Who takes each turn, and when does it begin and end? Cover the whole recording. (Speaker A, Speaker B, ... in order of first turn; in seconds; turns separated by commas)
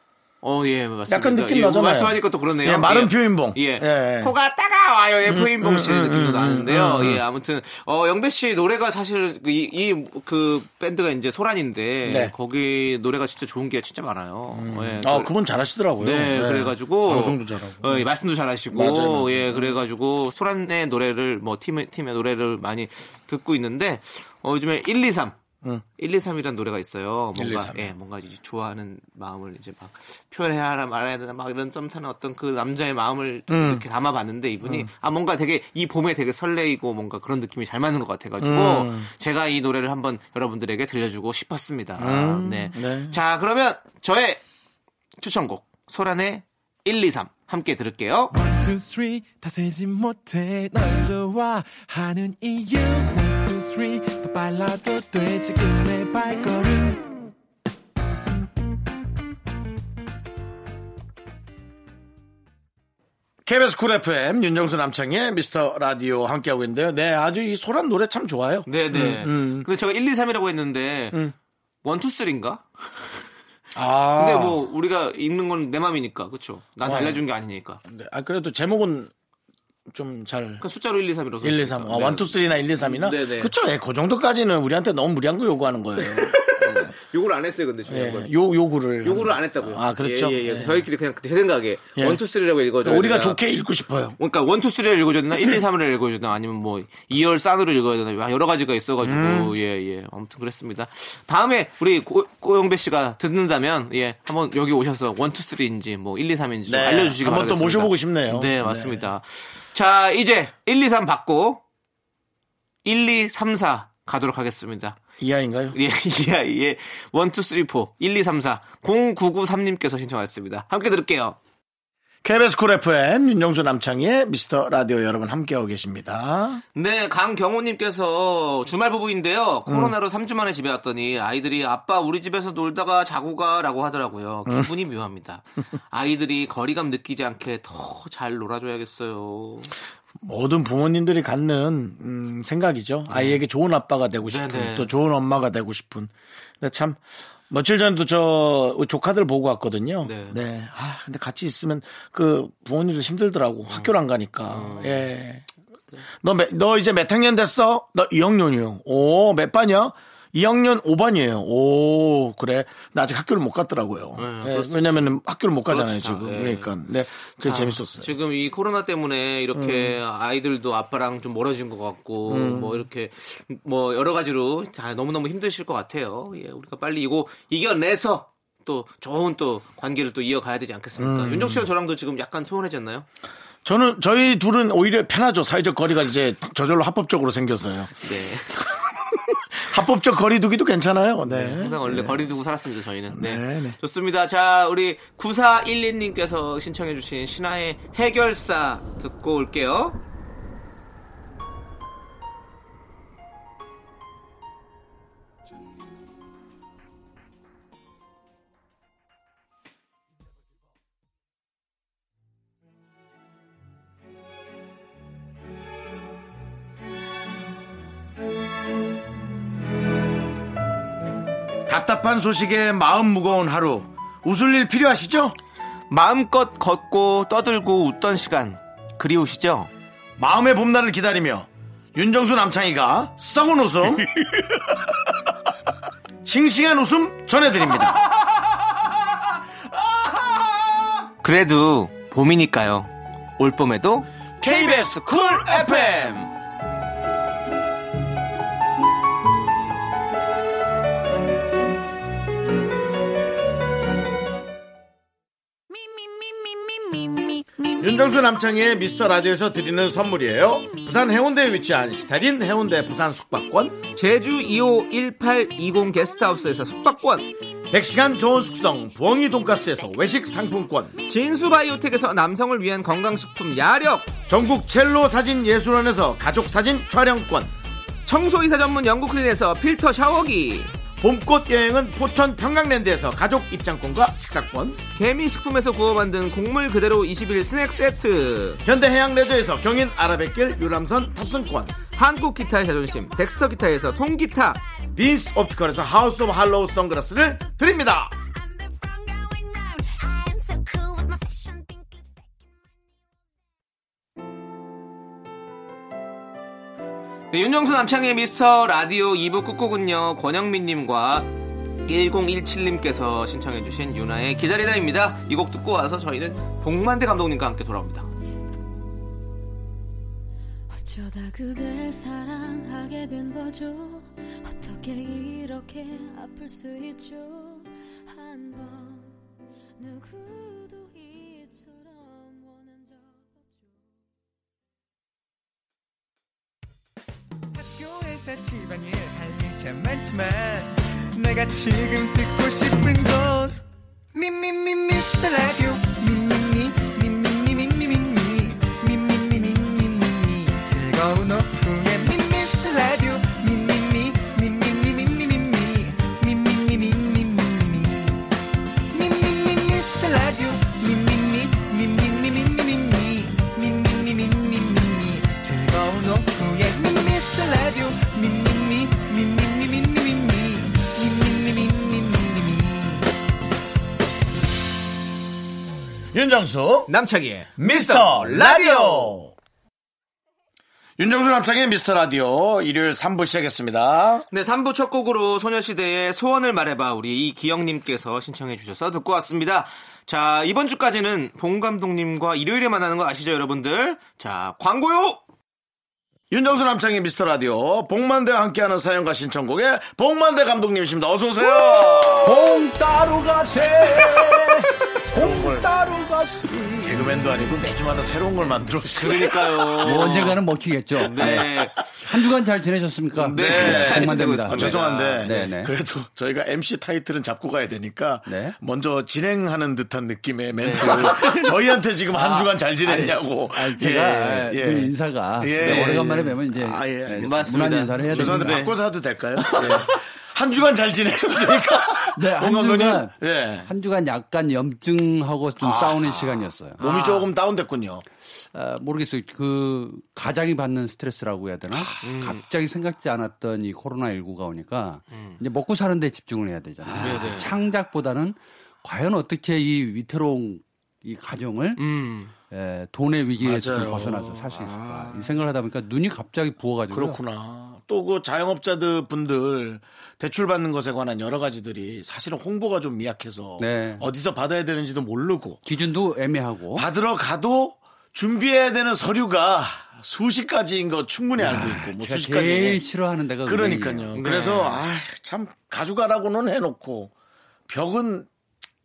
Speaker A: 0.4-15.3, Speaker B: 1.1-4.3, Speaker B: 5.3-7.2, Speaker B: 12.1-12.3, Speaker B: 14.5-18.1, Speaker A: 16.0-25.4, Speaker B: 18.7-19.8, Speaker A: 26.0-44.4, Speaker B: 27.4-27.9, Speaker B: 33.5-33.8, Speaker B: 34.6-34.9, Speaker B: 38.4-39.1, Speaker B: 42.0-43.2, Speaker A: 45.2-48.3, Speaker C: 48.3-57.1, Speaker B: 63.5-69.7, Speaker A: 68.7-71.2, Speaker A: 71.8-73.1, Speaker B: 73.7-74.6, Speaker A: 74.2-77.8, Speaker B: 76.8-77.2, Speaker B: 77.8-79.1, Speaker B: 79.9-80.7, Speaker A: 80.6-83.5, Speaker B: 81.4-86.9, Speaker A: 86.0-88.3, Speaker B: 87.9-90.9, Speaker A: 89.0-93.4, Speaker B: 92.0-92.2, Speaker B: 92.8-94.2, Speaker A: 94.2-111.6, Speaker B: 99.0-99.6, Speaker B: 106.7-109.1, Speaker A: 112.8-115.0, Speaker B: 115.2-115.8, Speaker A: 115.7-121.4, Speaker B: 122.2-126.6, Speaker A: 126.8-139.8, Speaker B: 129.7-129.9, Speaker B: 140.2-155.5, Speaker A: 143.1-143.4, Speaker A: 144.3-144.9, Speaker A: 150.0-150.4, Speaker A: 154.5-155.1, Speaker B: 156.2-168.1, Speaker A: 164.2-166.8, Speaker A: 167.4-183.1, Speaker B: 169.5-170.0, Speaker B: 172.3-172.8, Speaker B: 181.0-181.7, Speaker B: 183.7-188.0, Speaker A: 188.0-188.6, Speaker B: 189.5-192.3, Speaker A: 191.2-200.0, Speaker B: 193.1-193.8, Speaker B: 221.7-225.4, Speaker A: 225.9-229.7, Speaker B: 230.2-234.2, Speaker B: 236.2-238.0, Speaker A: 241.2-245.9, Speaker B: 244.4-246.3, Speaker B: 257.6-263.8, Speaker A: 263.9-267.3, Speaker B: 267.7-271.0, Speaker A: 271.1-274.2, Speaker B: 274.3-277.5, Speaker A: 278.1-280.8, Speaker B: 281.0-284.8, Speaker A: 284.9-288.6, Speaker B: 288.6-291.8, Speaker A: 291.9-294.6, Speaker B: 294.9-298.2, Speaker A: 307.3-311.3, Speaker A: 311.9-318.1, Speaker D: 320.7-329.1, Speaker D: 329.8-333.8, Speaker C: 337.6-343.6, Speaker C: 344.1-358.2, Speaker C: 358.9-373.0, Speaker B: 376.1-376.9, Speaker A: 376.9-379.2, Speaker B: 377.6-379.3, Speaker B: 381.0-384.3, Speaker A: 384.3-395.2, Speaker B: 396.3-402.5, Speaker E: 401.4-407.5, Speaker B: 403.8-404.4, Speaker B: 405.0-405.7, Speaker B: 406.8-410.2, Speaker A: 408.9-410.4, Speaker E: 409.8-415.7, Speaker A: 411.0-411.8, Speaker B: 411.2-411.5, Speaker A: 413.2-415.3, Speaker B: 413.3-433.7, Speaker E: 418.3-418.6, Speaker A: 420.6-421.5, Speaker E: 420.8-421.3, Speaker A: 422.1-422.4, Speaker E: 422.2-428.7, Speaker A: 425.6-426.3, Speaker A: 427.2-428.8, Speaker A: 429.5-429.8, Speaker E: 429.5-429.9, Speaker E: 431.7-433.1, Speaker E: 433.7-436.8, Speaker B: 435.6-438.1, Speaker A: 436.8-437.3, Speaker E: 438.5-451.8, Speaker B: 441.7-442.0, Speaker A: 442.0-442.4, Speaker A: 445.1-445.4, Speaker B: 446.8-447.4, Speaker A: 447.0-447.5, Speaker A: 451.8-452.3, Speaker E: 452.5-457.2, Speaker B: 453.4-455.4, Speaker B: 456.9-465.6, Speaker E: 463.6-464.1, Speaker E: 465.6-466.9, Speaker B: 466.8-472.8, Speaker E: 471.4-474.2, Speaker B: 473.4-477.1, Speaker A: 474.1-474.8, Speaker B: 477.7-478.3